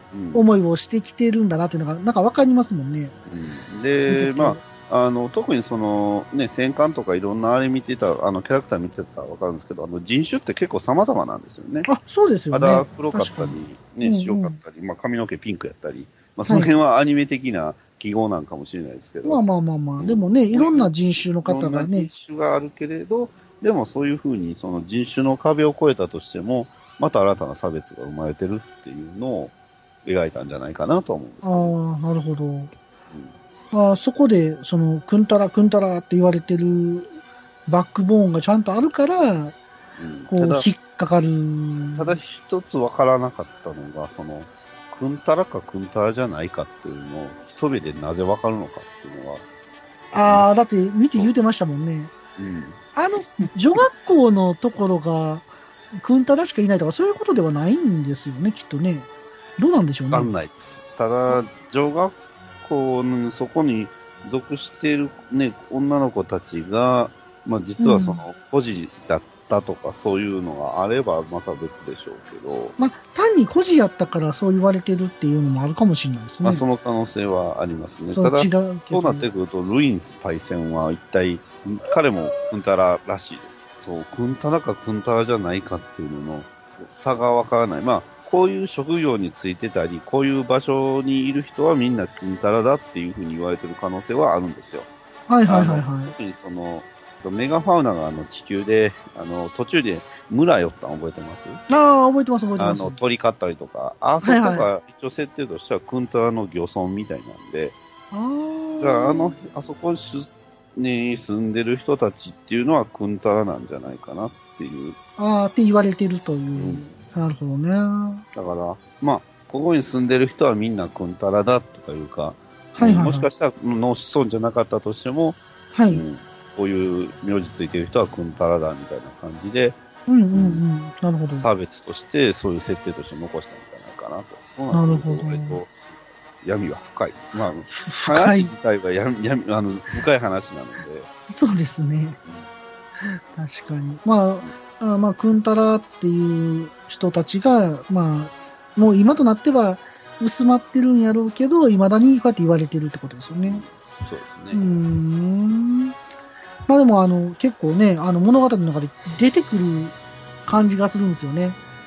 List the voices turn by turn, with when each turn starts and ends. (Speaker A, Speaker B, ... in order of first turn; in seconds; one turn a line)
Speaker A: 0.1-0.4
Speaker B: 0.3-3.1
Speaker A: 3.3-11.9
Speaker B: 4.1-4.6
Speaker B: 11.8-14.6
Speaker A: 12.5-19.4
Speaker B: 16.5-16.7
Speaker B: 19.2-22.1
Speaker A: 20.0-31.8
Speaker B: 31.4-32.7
Speaker B: 33.7-37.1
Speaker B: 37.7-39.6
Speaker A: 40.0-40.7
Speaker B: 40.3-42.2
Speaker A: 42.0-49.4
Speaker B: 50.1-52.1
Speaker A: 52.4-52.8
Speaker B: 53.0-60.3
Speaker A: 60.1-72.8
Speaker B: 67.8-68.2
Speaker B: 72.8-76.6
Speaker A: 76.4-94.9
Speaker B: 78.1-79.3
Speaker B: 95.3-96.1
Speaker A: 95.5-101.6
Speaker B: 101.7-103.0
Speaker A: 102.6-107.8
Speaker B: 104.2-104.7
Speaker B: 108.1-109.4
Speaker A: 108.8-115.0
Speaker B: 115.2-118.2
Speaker A: 116.6-116.9
Speaker A: 118.3-129.8
Speaker B: 122.8-123.3
Speaker B: 125.7-126.0
Speaker B: 130.1-131.5
Speaker A: 130.3-130.6
Speaker A: 131.3-141.1
Speaker B: 134.7-135.6
Speaker B: 137.7-138.5
Speaker B: 141.3-142.2
Speaker B: 143.0-153.6
Speaker A: 153.4-154.8
Speaker B: 154.5-155.9
Speaker B: 156.7-159.9
Speaker B: 160.5-161.6